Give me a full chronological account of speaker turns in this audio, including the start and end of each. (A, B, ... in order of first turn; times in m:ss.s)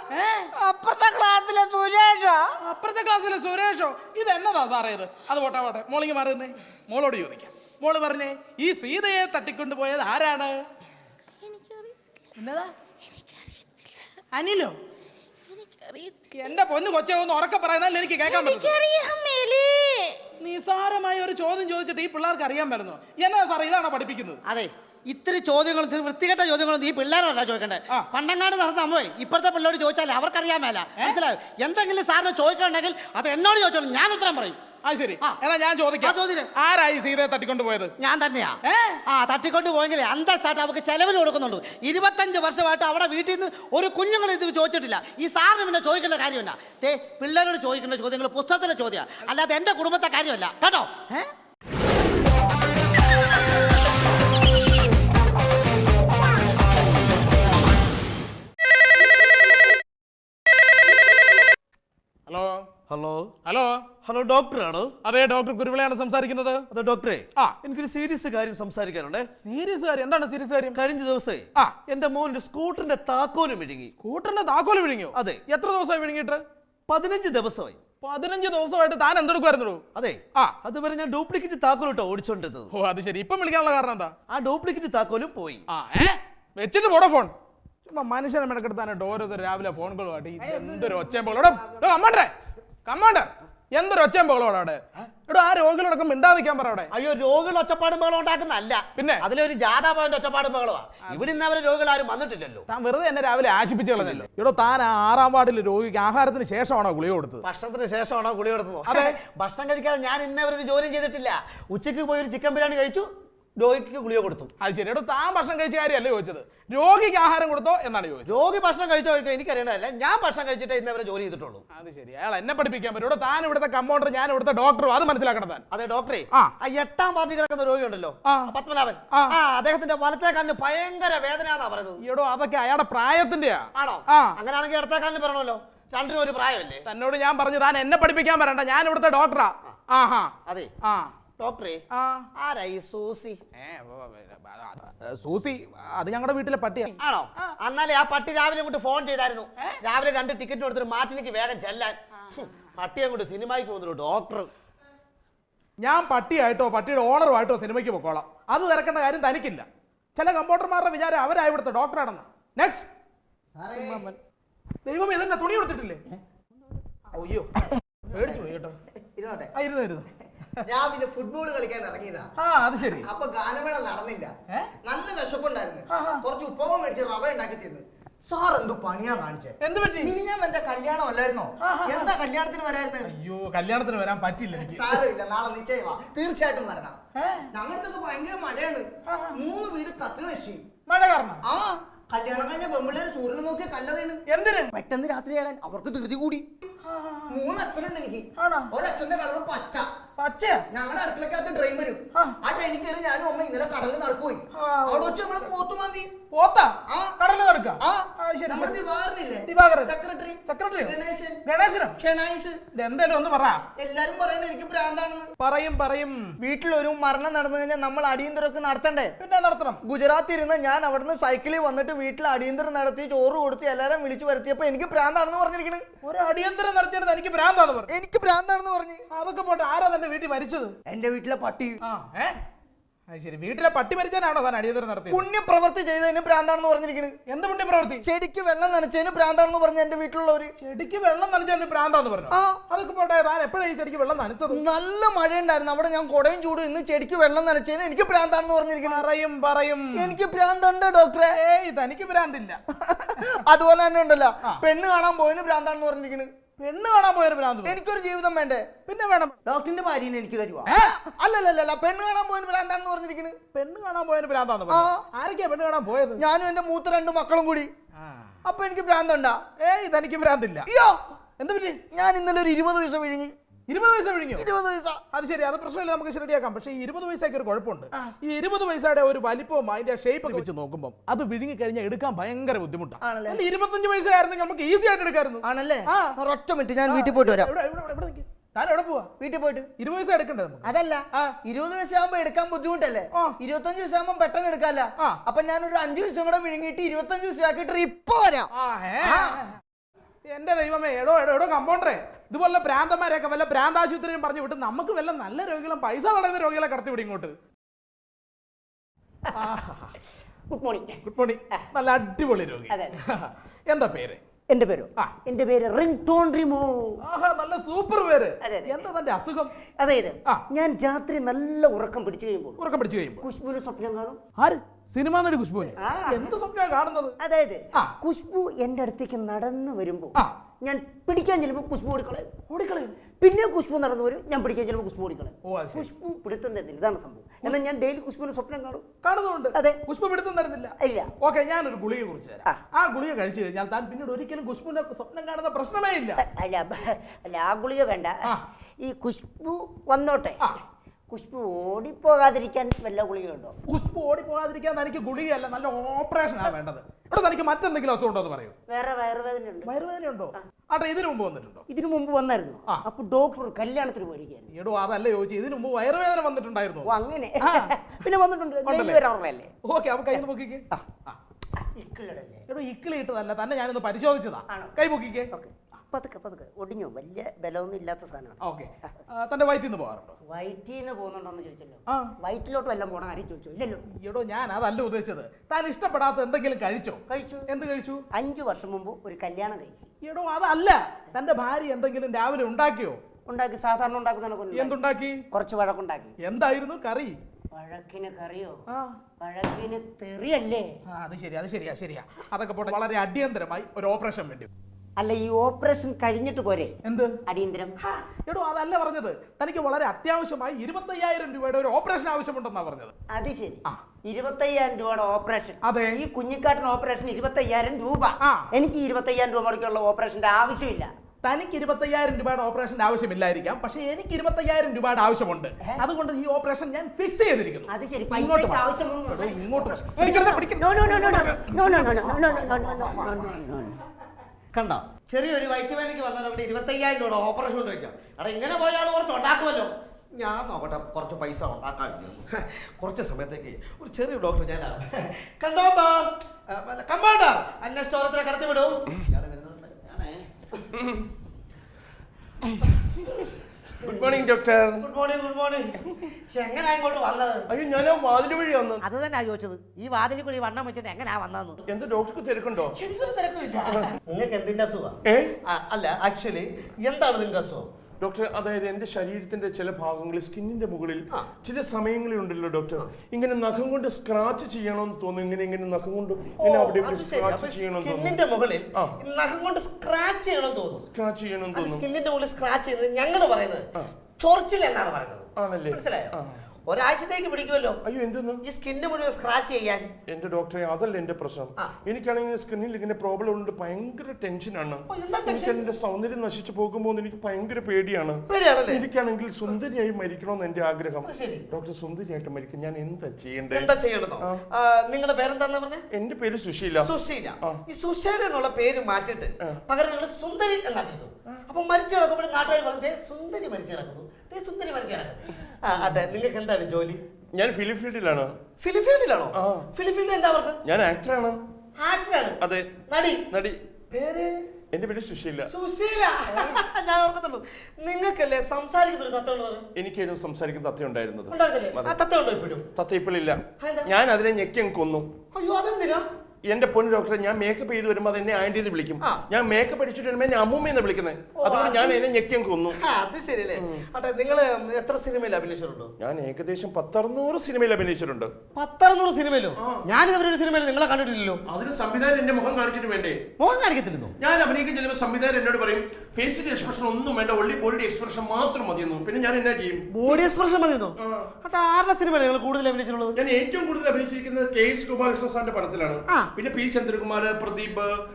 0:00.1-0:00.5 A
0:00.7-0:02.5 B
0:02.6-0:10.6 A
0:11.4-0:11.9 B
0:12.4-0:12.7 A
0:14.3-0:14.8 A
0:15.5-0:16.5 B
0:16.3-0:18.8 A
0:18.2-0:20.2 B
0:20.4-0:24.4 A
0:24.4-0:34.6 C
0:34.8-0:37.9 A
0:36.0-0:36.5 C
0:38.0-0:51.1 C
0:38.7-0:39.0 A
1:02.3-1:02.7 A
1:02.9-1:03.3 C
1:03.5-1:03.8 A
1:04.0-1:04.9 C
1:05.0-1:06.7 A
1:06.7-1:09.3 C
1:09.4-1:10.8 A
1:10.7-1:13.9 C
1:14.0-1:16.4 A
1:15.2-1:15.4 C
1:16.9-1:17.8 C
1:18.0-1:19.8 A
1:20.0-1:22.7 C
1:22.7-1:24.1 A
1:24.3-1:25.6 C
1:25.7-1:27.3 A
1:27.9-1:32.3 A
1:32.9-1:36.9 A
1:36.9-1:42.7 C
1:39.0-1:39.2 A
1:42.7-1:47.4 A
1:44.0-1:44.3 C
1:47.4-1:54.5 C
1:48.9-1:49.2 A
1:54.6-1:58.4 A
1:58.2-2:01.6 C
2:01.7-2:05.6 A
2:05.7-2:12.0 C
2:12.0-2:14.3 A
2:13.8-2:16.8 C
2:16.9-2:20.3 A
2:20.8-2:21.1 A
2:21.4-2:21.8 C
2:22.0-2:22.2 A
2:22.4-2:23.4 C
2:23.6-2:27.5 A
2:27.0-2:34.5 C
2:35.8-2:42.9 A
2:43.6-2:44.1 D
2:43.8-2:44.2 A
2:44.8-2:46.0 A
2:47.1-2:48.8 A
2:49.2-2:49.5 D
2:49.6-2:50.1 A
2:50.6-2:52.3 D
2:52.4-2:53.1 A
2:53.0-2:54.3 D
2:54.8-3:03.1 D
2:55.9-2:56.2 A
2:59.6-3:00.1 A
3:01.6-3:02.1 A
3:03.0-3:05.1 A
3:04.6-3:07.0 D
3:07.2-3:07.5 A
3:07.5-3:10.6 D
3:09.1-3:09.4 A
3:10.9-3:11.4 A
3:11.4-3:14.2 D
3:14.3-3:14.7 A
3:14.8-3:16.5 D
3:16.9-3:17.4 A
3:17.3-3:19.9 D
3:18.4-3:18.7 A
3:20.2-3:20.6 A
3:20.7-3:26.1 D
3:24.5-3:25.2 A
3:26.3-3:28.8 A
3:26.9-3:27.2 D
3:27.8-3:31.4 D
3:29.5-3:29.9 A
3:30.5-3:32.0 A
3:32.0-3:32.6 D
3:32.7-3:33.6 A
3:33.8-3:35.3 D
3:35.4-3:36.3 A
3:36.4-3:39.2 D
3:39.2-3:39.8 A
3:39.8-3:45.8 D
3:46.0-3:47.9 A
3:47.9-3:49.0 D
3:49.1-3:50.8 A
3:50.9-3:51.8 D
3:51.8-3:52.4 A
3:53.1-3:55.2 A
3:55.1-3:57.2 D
3:57.3-3:58.0 A
3:58.0-4:00.5 D
4:00.6-4:04.6 A
4:04.5-4:09.0 D
4:08.8-4:10.2 A
4:09.9-4:11.4 D
4:11.3-4:12.6 A
4:12.8-4:16.3 D
4:16.6-4:17.8 A
4:17.6-4:18.7 D
4:18.9-4:19.4 A
4:19.5-4:20.7 E
4:20.7-4:21.0 A
4:21.0-4:23.4 D
4:23.5-4:26.2 A
4:24.7-4:25.0 D
4:26.2-4:27.7 D
4:28.0-4:28.3 A
4:28.4-4:29.4 D
4:29.6-4:30.7 A
4:30.7-4:31.0 D
4:31.4-4:31.8 A
4:31.9-4:33.3 D
4:33.7-4:34.5 A
4:34.4-4:35.0 D
4:35.1-4:46.2 A
4:43.0-4:43.4 D
4:45.4-4:47.5 D
4:46.9-4:49.1 A
4:49.2-4:49.7 D
4:49.8-4:51.3 A
4:51.5-4:58.5 D
4:58.6-4:59.5 A
4:59.0-4:59.4 D
5:00.3-5:07.4 A
5:09.4-5:09.9 A
5:10.5-5:11.0 E
5:11.1-5:14.2 A
5:12.7-5:13.0 E
5:14.5-5:17.0 E
5:17.1-5:19.5 A
5:18.4-5:18.8 E
5:19.8-5:22.6 E
5:22.6-5:23.2 A
5:23.2-5:24.2 E
5:24.4-5:27.2 A
5:25.8-5:26.3 E
5:27.2-5:32.3 E
5:32.5-5:33.0 A
5:33.2-5:38.8 E
5:35.4-5:35.9 A
5:39.0-5:46.2 A
5:40.8-5:41.1 E
5:46.2-5:48.2 E
5:48.8-5:50.4 E
5:51.1-5:53.5 E
5:53.7-5:58.6 A
5:58.7-5:59.7 E
5:59.6-6:01.6 A
6:01.7-6:04.5 E
6:04.5-6:07.7 A
6:06.8-6:09.5 E
6:08.6-6:09.0 A
6:09.6-6:11.2 A
6:11.6-6:12.4 E
6:12.5-6:15.3 A
6:14.5-6:14.8 E
6:15.3-6:18.4 E
6:18.4-6:20.2 A
6:20.3-6:23.8 E
6:24.0-6:28.0 A
6:27.1-6:27.5 E
6:28.1-6:29.9 E
6:30.0-6:33.0 A
6:33.3-6:34.8 E
6:34.5-6:35.2 A
6:35.3-6:36.1 E
6:36.2-6:37.2 A
6:37.6-6:38.6 E
6:39.2-6:40.7 E
6:40.9-6:44.5 A
6:45.0-6:46.8 E
6:46.8-6:47.2 A
6:47.3-6:47.7 E
6:47.8-6:52.9 A
6:53.1-7:00.9 E
6:55.6-6:56.0 A
7:01.2-7:12.2 A
7:07.7-7:13.8 E
7:11.7-7:13.3 B
7:14.5-7:30.6 C
7:33.8-7:34.9 F
7:33.8-7:34.2 C
7:34.8-7:37.4 C
7:37.5-7:38.8 F
7:38.8-7:41.6 C
7:41.7-7:42.8 F
7:42.8-7:47.7 C
7:48.0-7:58.2 F
7:56.4-8:00.8 C
8:00.9-8:01.8 F
8:01.5-8:06.1 C
8:05.4-8:06.3 F
8:06.7-8:07.8 C
8:07.8-8:08.4 F
8:08.4-8:09.9 C
8:10.1-8:23.7 F
8:14.9-8:15.6 C
8:18.3-8:18.8 C
8:21.0-8:21.4 C
8:23.5-8:25.8 C
8:25.9-8:26.9 F
8:26.8-8:37.0 C
8:37.4-8:38.3 F
8:38.6-8:40.6 C
8:39.4-8:39.7 F
8:40.6-8:41.4 F
8:41.8-8:43.2 C
8:42.4-8:42.7 F
8:43.3-8:43.6 F
8:43.9-8:44.3 C
8:44.7-8:45.5 F
8:45.5-8:49.7 C
8:49.8-8:51.9 F
8:51.3-8:52.7 C
8:52.8-8:55.1 F
8:53.6-8:53.9 C
8:55.3-8:56.0 C
8:56.5-9:02.8 F
9:01.4-9:02.0 C
9:02.8-9:05.9 C
9:06.0-9:08.3 F
9:08.6-9:11.4 C
9:11.5-9:13.2 F
9:13.4-9:14.1 C
9:14.2-9:20.2 F
9:19.9-9:23.2 C
9:21.0-9:21.3 F
9:23.2-9:27.9 F